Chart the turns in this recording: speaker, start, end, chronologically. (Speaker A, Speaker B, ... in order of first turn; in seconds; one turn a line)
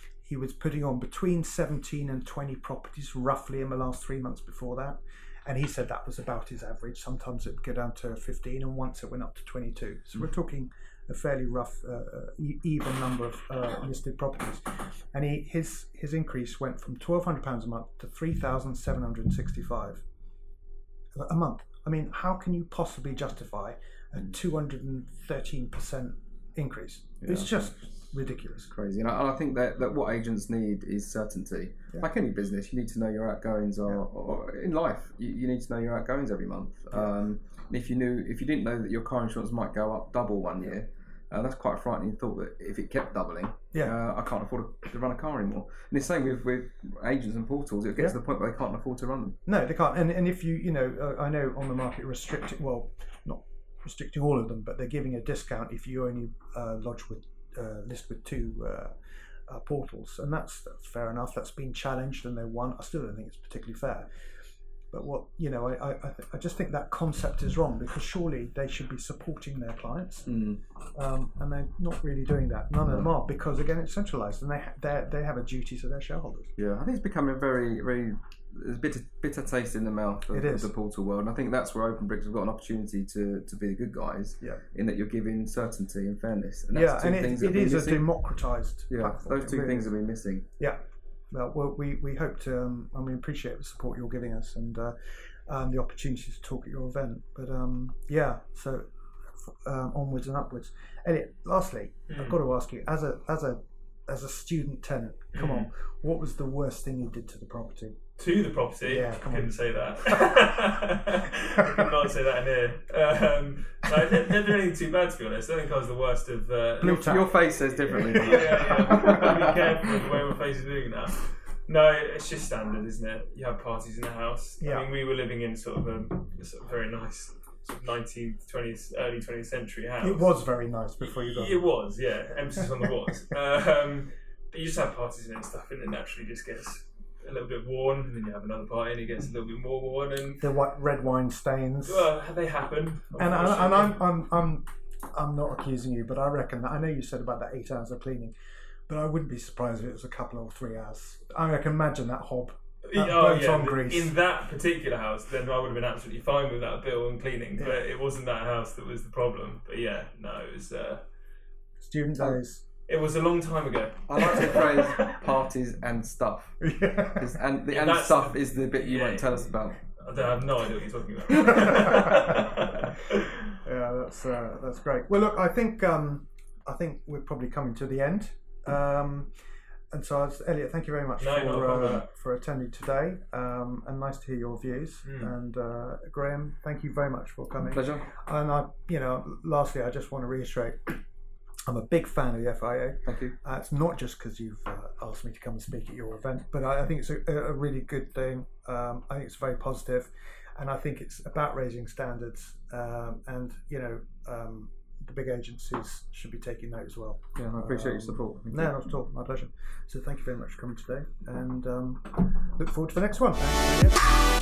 Speaker A: 0.2-20.0
Speaker A: 21.1-28.7
Speaker B: 27.2-27.7
Speaker B: 28.7-49.4
Speaker A: 49.5-64.2
Speaker A: 64.9-76.5
Speaker B: 70.2-70.6
Speaker B: 76.6-88.1
Speaker A: 80.3-80.7
Speaker A: 86.7-89.9
Speaker B: 88.9-90.5
Speaker A: 91.3-98.9
Speaker A: 99.4-108.0
Speaker C: 102.1-102.3
Speaker C: 105.3-105.7
Speaker C: 108.2-130.3
Speaker A: 108.8-110.3
Speaker A: 111.6-111.9
Speaker A: 116.8-117.3
Speaker B: 116.8-119.7
Speaker A: 117.9-119.5
Speaker A: 124.6-124.9
Speaker A: 130.0-131.7
Speaker C: 131.0-140.5
Speaker A: 132.3-133.1
Speaker A: 140.4-142.1
Speaker C: 141.8-144.0
Speaker A: 143.2-148.3
Speaker A: 148.9-154.1
Speaker C: 152.8-161.0
Speaker A: 161.8-162.6
Speaker C: 162.9-165.2
Speaker B: 164.1-169.8
Speaker A: 166.6-167.4
Speaker C: 167.7-169.4
Speaker C: 169.9-173.2
Speaker A: 171.6-172.4
Speaker A: 173.6-179.3
Speaker A: 179.9-191.0
Speaker C: 181.2-182.1
Speaker C: 185.0-185.3
Speaker B: 187.7-188.1
Speaker A: 191.7-214.1
Speaker B: 193.0-193.3
Speaker B: 207.3-208.8